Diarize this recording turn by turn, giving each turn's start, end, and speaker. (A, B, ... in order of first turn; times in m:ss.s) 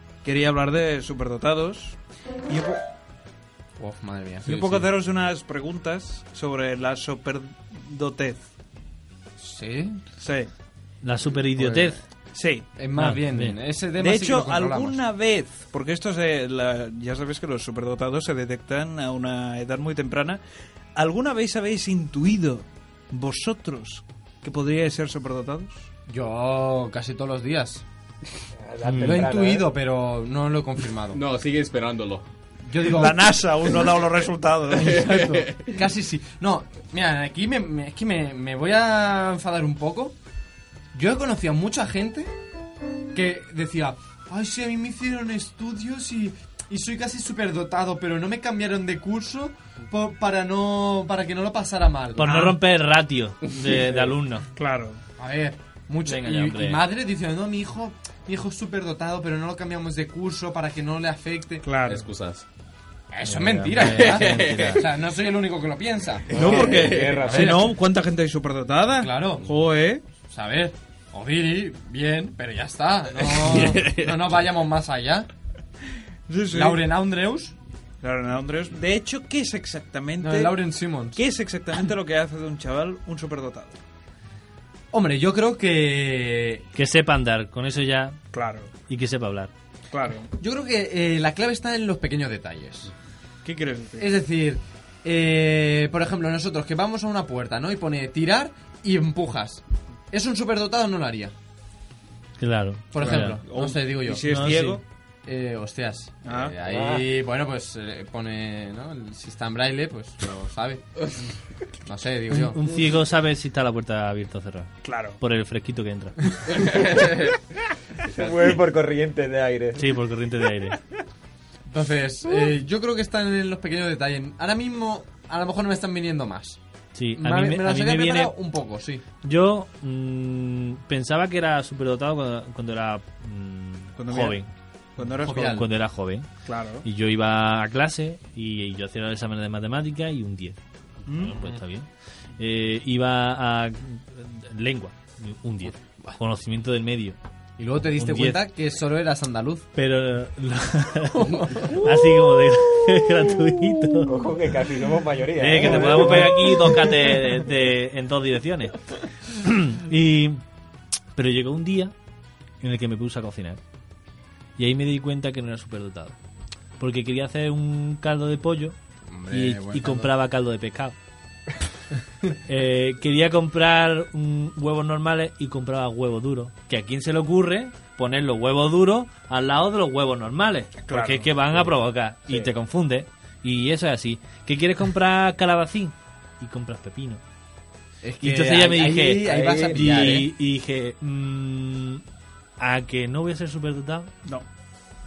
0:00.2-0:02.8 A
0:03.8-0:04.8 B
0:04.4-0:08.5 A
0:09.4-0:10.0 B
0:10.2-0:10.5 A
0:11.0-0:12.0 C
0:11.6-0:12.0 B
0:12.3-0:12.7 A
0:12.8-0:15.0 B
0:13.0-0:13.6 C
0:14.0-0:20.4 A
0:20.9-0:25.9 A
0:26.1-0:27.8 B
0:28.6-0:29.7 D
0:28.8-0:29.3 C
0:29.0-0:31.2 B
0:31.1-0:32.3 E
0:32.7-0:33.4 B
0:32.9-0:35.1 A
0:34.7-0:35.8 E
0:34.7-0:40.2 B
0:40.9-0:42.3 B
0:43.1-0:52.5 B
0:52.2-0:54.4 C
0:52.2-0:52.5 A
0:54.5-0:55.0 A
0:55.2-1:01.6 B
0:56.1-0:56.8 C
1:01.6-1:02.1 A
1:01.8-1:02.4 E
1:03.1-1:06.7 B
1:03.2-1:04.8 C
1:03.8-1:04.8 E
1:06.3-1:07.2 E
1:06.3-1:07.7 D
1:06.3-1:10.0 A
1:07.3-1:07.7 B
1:08.9-1:09.5 B
1:10.2-1:15.3 B
1:13.2-1:14.2 E
1:16.3-1:16.9 A
1:16.5-1:17.5 B
1:18.0-1:20.6 A
1:20.2-1:21.2 B
1:21.2-1:23.8 A
1:24.9-1:26.6 B
1:26.8-1:28.2 C
1:28.3-1:28.7 A
1:28.9-1:29.5 C
1:29.9-1:30.3 A
1:30.4-1:32.9 B
1:33.4-1:34.1 A
1:34.0-1:41.3 B
1:42.4-1:43.4 C
1:42.9-1:44.3 B
1:43.0-1:44.8 A
1:44.2-1:44.8 C
1:45.2-1:50.8 B
1:46.2-1:46.5 A
1:46.6-1:47.1 D
1:51.8-1:52.6 B
1:52.3-1:56.8 C
1:54.8-1:55.2 A
1:56.5-1:57.4 E
1:58.1-2:00.0 D
1:58.1-1:58.4 E
1:59.8-2:00.8 C
2:01.7-2:06.6 B
2:07.0-2:08.3 C
2:07.2-2:09.0 B
2:09.2-2:14.5 C
2:14.0-2:14.4 A
2:15.0-2:15.6 A
2:15.2-2:15.7 B
2:15.3-2:16.3 C
2:16.5-2:16.8 A
2:16.8-2:21.9 C
2:21.1-2:21.4 A
2:22.4-2:27.2 C
2:27.6-2:29.7 B
2:27.9-2:28.4 C
2:29.8-2:34.2 C
2:31.2-2:31.7 B
2:34.0-2:37.1 D
2:35.4-2:40.4 C
2:41.2-2:41.9 C
2:42.6-2:43.6 C
2:44.6-2:46.1 C
2:46.8-2:48.8 C
2:49.1-2:50.1 B
2:49.3-2:51.0 C
2:52.4-3:07.2 C
3:00.8-3:01.6 A
3:08.0-3:10.3 B
3:08.2-3:12.0 C
3:12.6-3:14.1 C